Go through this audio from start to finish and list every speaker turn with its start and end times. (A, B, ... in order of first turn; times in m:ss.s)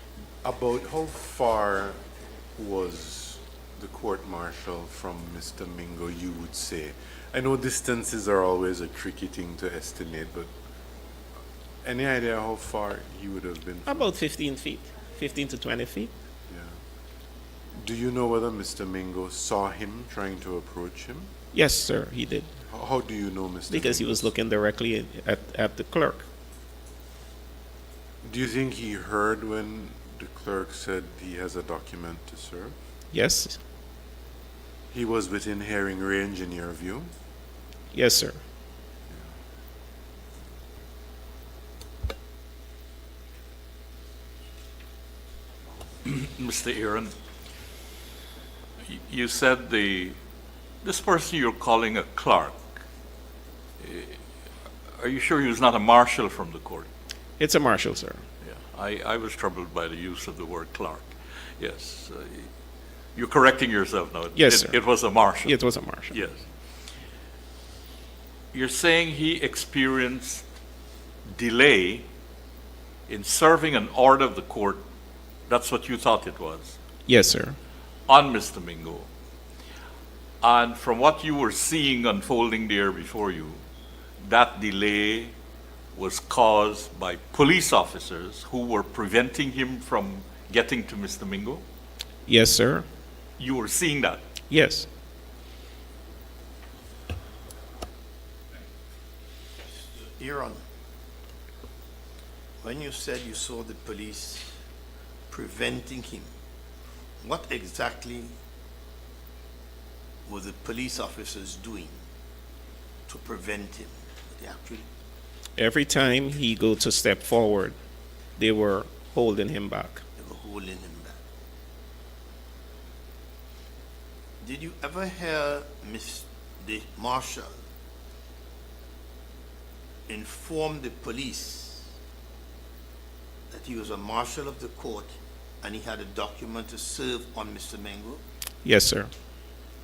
0:00.4-0:02.0 A
0:02.6-0:10.5 A
0:11.8-0:14.1 A
0:13.8-0:16.1 B
0:16.5-0:16.8 A
0:17.7-0:21.3 A
0:21.5-0:22.5 B
0:22.7-0:24.3 A
0:23.7-0:26.2 B
0:28.2-0:32.7 A
0:33.1-0:33.6 B
0:34.9-0:37.1 A
0:37.9-0:38.4 B
0:46.0-0:47.1 C
0:48.8-0:50.2 C
0:50.8-0:52.6 C
0:53.8-0:54.2 C
0:55.0-0:56.9 C
0:57.4-0:58.2 B
0:58.4-1:02.5 C
1:03.1-1:05.5 C
1:04.4-1:06.2 B
1:06.1-1:06.4 C
1:08.5-1:10.4 C
1:11.3-1:12.0 C
1:13.1-1:14.8 C
1:15.5-1:16.8 C
1:17.1-1:17.6 B
1:18.1-1:19.1 C
1:20.4-1:23.6 C
1:24.2-1:25.3 C
1:25.9-1:31.6 C
1:32.3-1:32.8 B
1:33.4-1:34.2 C
1:34.5-1:34.9 B
1:39.8-1:40.6 D
1:42.6-1:44.5 D
1:45.3-1:46.3 D
1:47.2-1:48.3 D
1:50.2-1:52.0 D
1:53.1-1:54.8 D
1:55.6-1:57.8 B
1:58.4-2:00.0 B
2:00.2-2:01.2 D
2:04.4-2:07.5 D
2:10.1-2:11.8 D
2:13.5-2:18.2 D
2:18.6-2:19.1 B